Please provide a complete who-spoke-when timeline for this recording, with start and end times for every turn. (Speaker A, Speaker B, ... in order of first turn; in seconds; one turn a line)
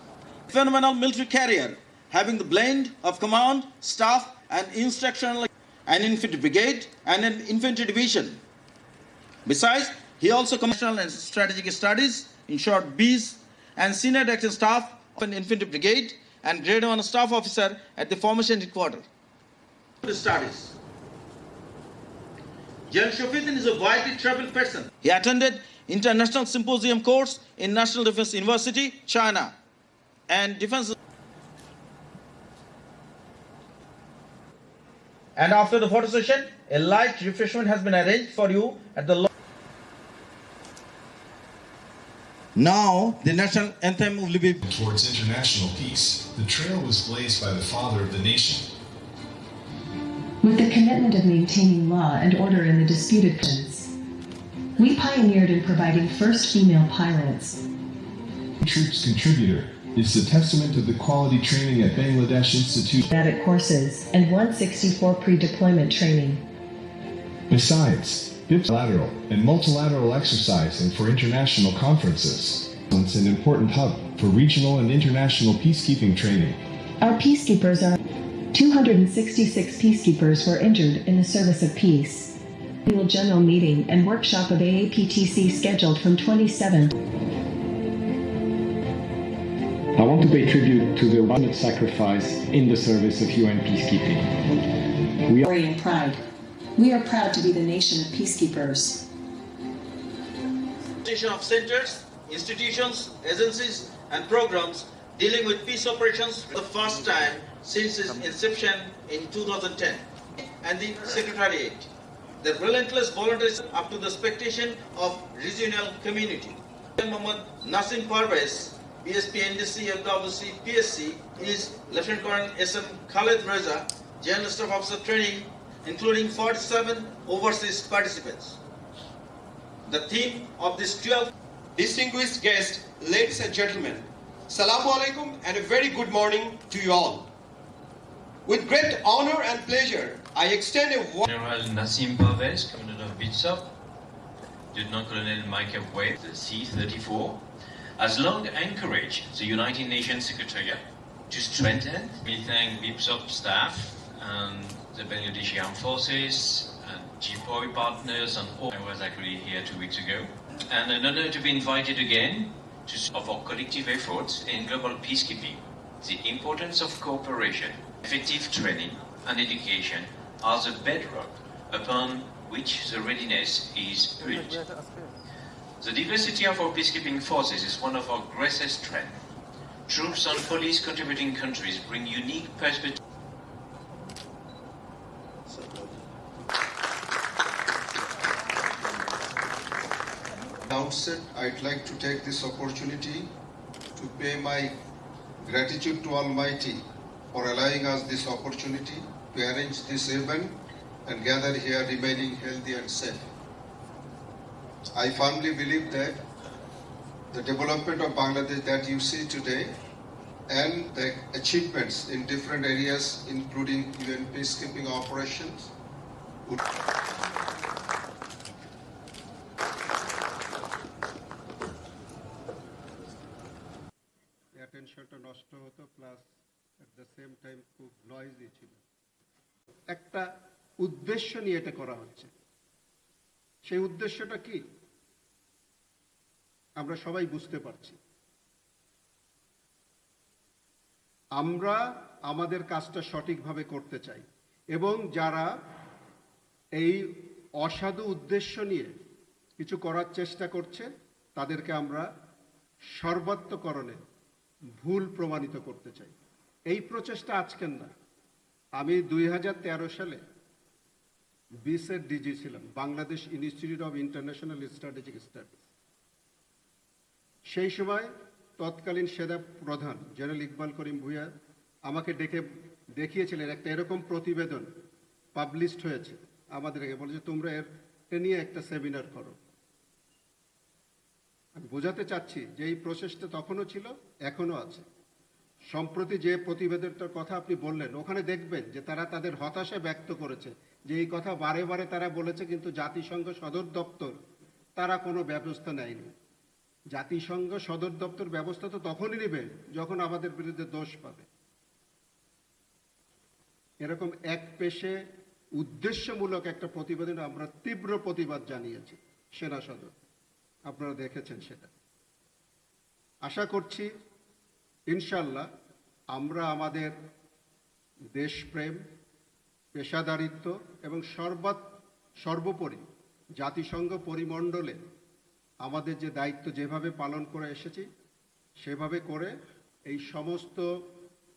Speaker A: 0.5-8.4
Speaker A: 9.5-19.1
Speaker A: 20.0-20.8
Speaker A: 22.9-29.6
Speaker A: 30.3-30.9
Speaker A: 35.4-39.3
Speaker A: 42.5-44.6
Speaker B: 44.6-48.7
Speaker C: 50.4-53.9
Speaker C: 54.8-57.6
Speaker B: 58.6-63.0
Speaker C: 63.1-66.4
Speaker B: 67.5-76.6
Speaker C: 77.0-78.0
Speaker C: 78.5-87.0
Speaker D: 90.0-94.3
Speaker C: 95.4-96.2
Speaker C: 96.8-99.0
Speaker A: 101.0-111.9
Speaker A: 112.4-128.6
Speaker A: 129.9-131.3
Speaker E: 131.8-137.3
Speaker E: 138.5-141.3
Speaker F: 141.3-143.7
Speaker F: 144.7-147.4
Speaker F: 148.0-174.7
Speaker F: 175.8-179.2
Speaker F: 179.9-183.0
Speaker G: 190.7-193.3
Speaker G: 194.0-194.8
Speaker G: 195.4-196.8
Speaker G: 197.3-203.3
Speaker G: 205.0-206.2
Speaker G: 207.3-209.8
Speaker G: 210.5-215.7
Speaker H: 224.6-226.3
Speaker H: 226.8-228.8
Speaker H: 229.9-230.2
Speaker H: 230.8-232.3
Speaker H: 233.7-234.6
Speaker H: 236.8-238.0
Speaker H: 241.4-245.5
Speaker H: 247.6-248.9
Speaker H: 249.6-252.1
Speaker H: 253.0-254.0
Speaker H: 254.8-256.2
Speaker H: 256.7-257.9
Speaker H: 258.8-260.2
Speaker H: 261.6-265.6
Speaker H: 267.5-268.1
Speaker H: 268.6-271.3
Speaker H: 271.9-272.5
Speaker H: 273.0-274.7
Speaker H: 275.4-279.4
Speaker H: 281.6-284.9
Speaker H: 285.7-294.1
Speaker H: 294.8-296.1
Speaker H: 296.9-301.3
Speaker H: 303.8-305.0
Speaker H: 305.6-309.9
Speaker H: 310.7-311.7
Speaker H: 313.2-313.9
Speaker H: 314.9-315.5
Speaker H: 316.1-316.9
Speaker H: 318.2-318.8
Speaker H: 319.8-321.6
Speaker H: 322.2-322.8
Speaker H: 323.4-324.8
Speaker H: 325.6-327.9
Speaker H: 328.6-329.3
Speaker H: 329.9-330.6